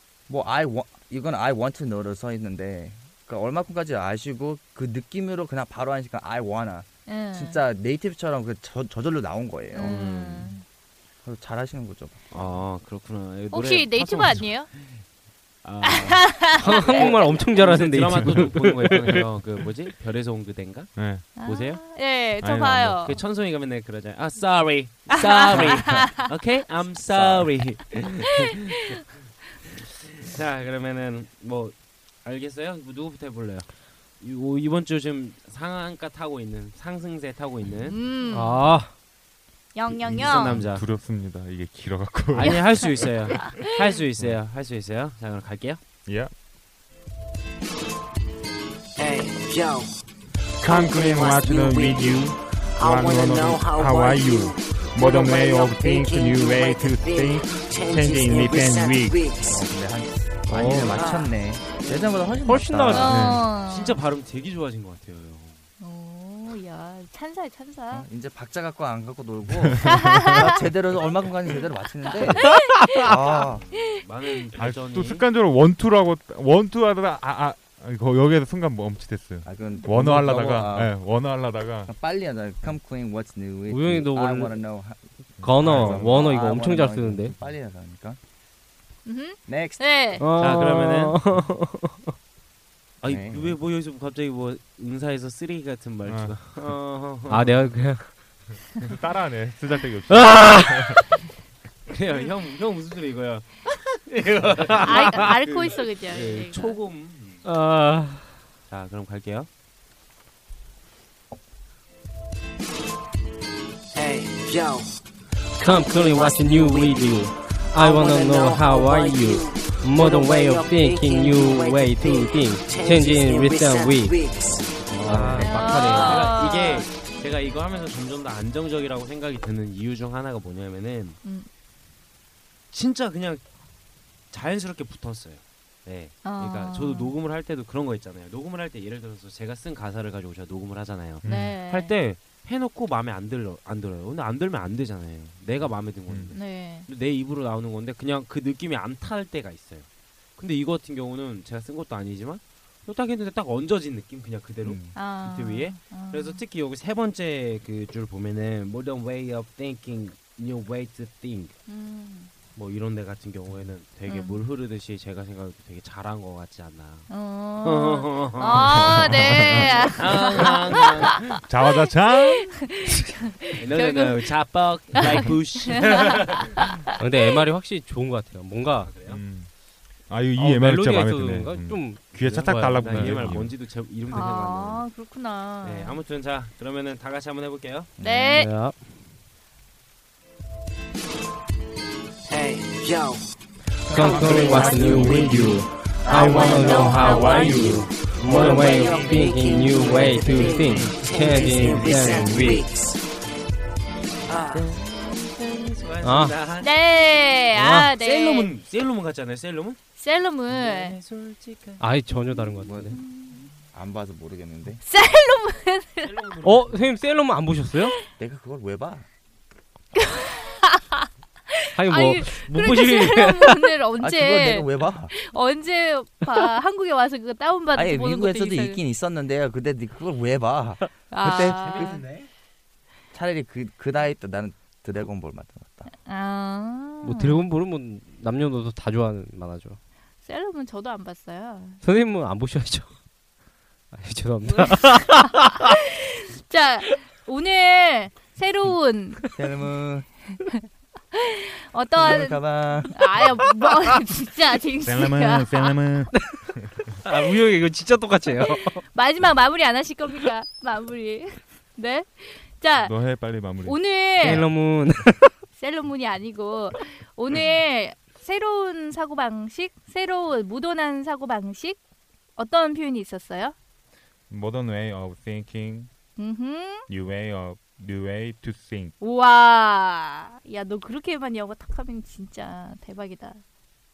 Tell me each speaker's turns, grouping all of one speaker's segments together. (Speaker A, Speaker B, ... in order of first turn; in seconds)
Speaker A: 0.3-9.9, 11.2-12.2, 27.1-27.8, 59.4-63.3, 67.9-73.7, 79.4-81.0, 81.9-88.2, 89.5-89.9, 93.0-93.6, 154.6-154.9, 188.0-188.4, 193.9-195.5, 212.6-213.0, 213.7-214.8, 218.2-219.1, 224.0-225.1, 227.7-232.1, 233.1-235.9, 249.3-250.1, 252.0-253.2
Speaker B: 7.1-7.6, 9.7-10.6, 13.5-14.7, 15.8-17.1, 21.4-23.2, 25.2-25.9, 37.9-38.8, 39.7-40.7, 42.4-43.8, 62.9-64.0, 65.8-68.1, 69.9-70.5, 72.4-73.2, 73.7-74.0, 89.0-90.2, 104.8-106.8, 125.4-126.9, 131.2-131.5, 136.2-137.2, 141.2-141.9, 146.3-146.9, 154.9-156.4, 161.7-162.3, 164.1-164.4, 167.1-176.8, 184.1-186.0, 188.0-188.5, 194.0-197.9, 206.6-208.5, 210.0-211.0, 212.3-213.5, 214.8-216.1, 220.0-221.1, 221.8-228.8, 231.1-232.1, 235.9-237.5, 240.2-241.8, 244.5-249.3, 251.1-255.8, 258.4-263.0, 263.6-264.6, 265.5-271.8, 272.4-273.6, 276.2-276.9, 279.0-283.4
Speaker C: 9.8-10.6, 12.3-15.0, 15.6-22.1, 23.0-29.0, 30.2-38.1, 39.9-40.9, 42.3-45.8, 61.9-62.4, 63.5-65.6, 73.3-75.3, 90.4-91.2, 93.0-97.8, 101.9-107.5, 108.7-109.5, 124.4-131.2, 132.7-133.4, 134.3-161.6, 162.6-167.1, 167.6-171.2, 173.6-176.7, 178.8-179.2, 182.8-184.9, 185.6-187.9, 204.3-209.8, 210.5-211.9, 216.0-216.9
Speaker D: 16.6-19.3, 38.3-39.0, 60.5-61.2, 62.4-63.2, 83.7-84.7, 85.4-87.3, 90.2-92.1, 97.3-98.2, 100.1-101.0, 104.9-105.3, 107.4-108.5, 115.6-124.3, 124.9-126.3, 177.0-179.0, 180.3-183.2, 188.3-189.0, 193.9-202.6, 206.0-206.3, 207.6-207.9, 211.8-213.0, 216.4-217.9, 221.8-223.8, 237.0-239.8, 241.8-243.0, 243.9-245.6, 256.1-256.5, 257.0-258.8, 264.2-265.4
Speaker E: 18.1-18.4, 21.0-21.4, 22.4-23.1, 40.2-44.4, 46.1-46.3, 50.6-59.3, 63.0-63.5, 69.9-70.5, 74.6-81.9, 85.4-86.3, 96.0-96.8, 98.8-101.0, 141.2-141.6, 146.1-146.3, 168.7-169.7, 171.3-172.7, 179.0-183.6, 254.8-256.9, 262.8-263.9, 274.3-275.9, 276.9-278.9
Speaker F: 49.0-49.9, 50.6-52.2, 52.8-59.4, 61.0-61.3, 114.0-114.9, 115.7-116.9, 117.8-124.5, 192.3-193.2, 198.2-202.9